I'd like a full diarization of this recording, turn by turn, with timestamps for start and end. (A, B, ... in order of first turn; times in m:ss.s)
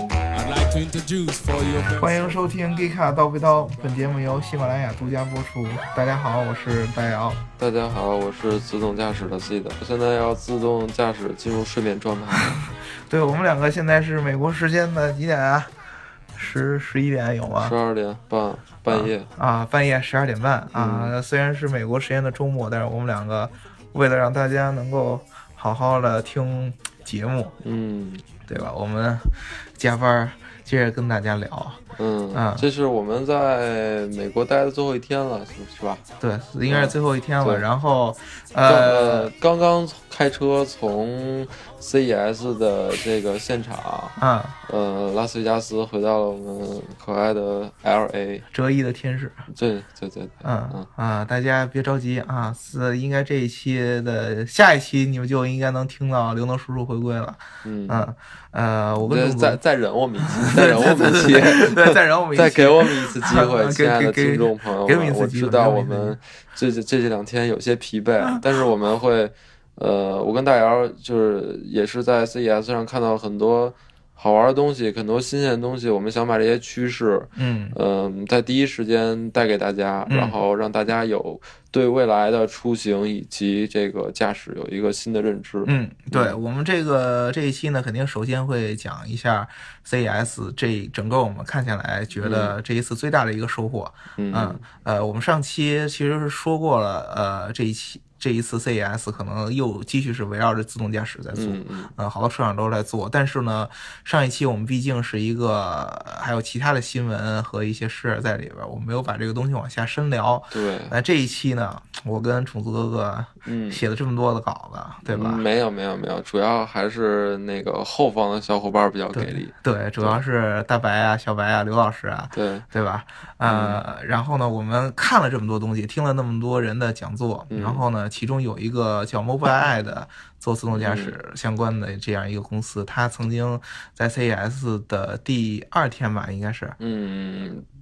0:00.3-0:02.4 A
0:02.0-0:07.4 B
0:07.6-0:12.6 C
0:12.6-0:15.7 B
0:16.4-0:17.8 B
0:17.6-0:19.3 C
0:18.9-0:27.5 B
0:20.7-0:21.1 C
0:27.6-0:28.2 C
0:28.5-0:31.8 B
0:32.0-0:36.0 C
0:32.3-0:32.6 B
0:36.2-0:39.3 B
0:36.7-0:37.6 C
0:38.6-0:48.4 C
0:44.2-0:44.5 B
0:48.5-0:49.4 B
0:49.5-0:50.9 C
0:50.4-0:59.6 B
0:57.6-0:58.1 C
0:59.0-1:26.4 C
1:00.4-1:06.2 B
1:17.4-1:17.8 B
1:20.1-1:20.4 B
1:25.6-1:55.4 B
1:32.2-1:32.6 C
1:34.2-1:34.6 C
1:41.3-1:41.9 C
1:50.5-1:51.0 C
1:53.4-1:53.8 C
1:55.1-2:00.2 C
1:59.1-2:16.8 B
2:02.3-2:02.6 C
2:03.4-2:03.8 C
2:07.5-2:07.8 C
2:10.7-2:11.2 C
2:16.8-2:17.6 C